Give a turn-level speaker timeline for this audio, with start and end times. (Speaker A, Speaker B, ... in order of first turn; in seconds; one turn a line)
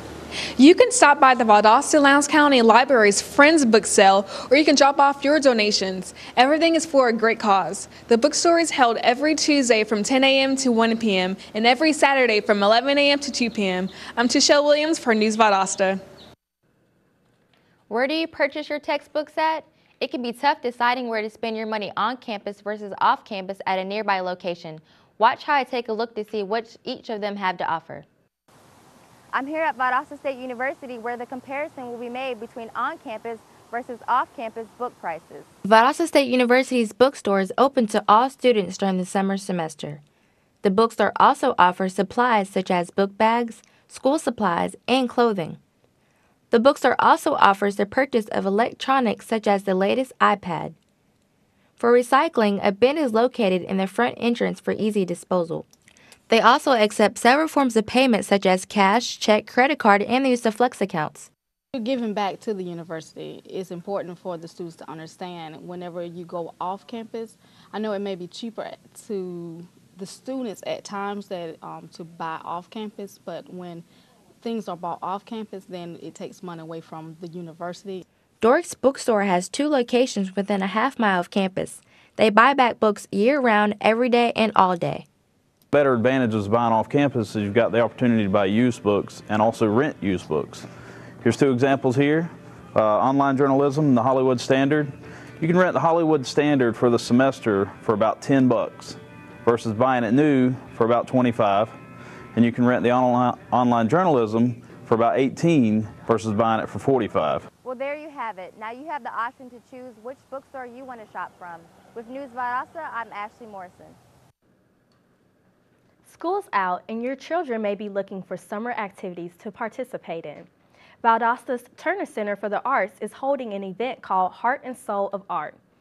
Speaker A: 0.6-16.0
Speaker B: 17.9-28.1
Speaker B: 29.3-40.0
Speaker B: 40.6-45.6
Speaker B: 46.5-50.8
Speaker B: 51.8-55.6
Speaker B: 56.3-61.3
Speaker C: 61.7-73.8
Speaker C: 74.4-78.0
Speaker B: 78.4-85.0
Speaker D: 85.7-90.7
Speaker D: 91.2-101.8
Speaker D: 102.3-107.5
Speaker B: 107.6-114.0
Speaker E: 116.0-120.5
Speaker E: 121.0-125.6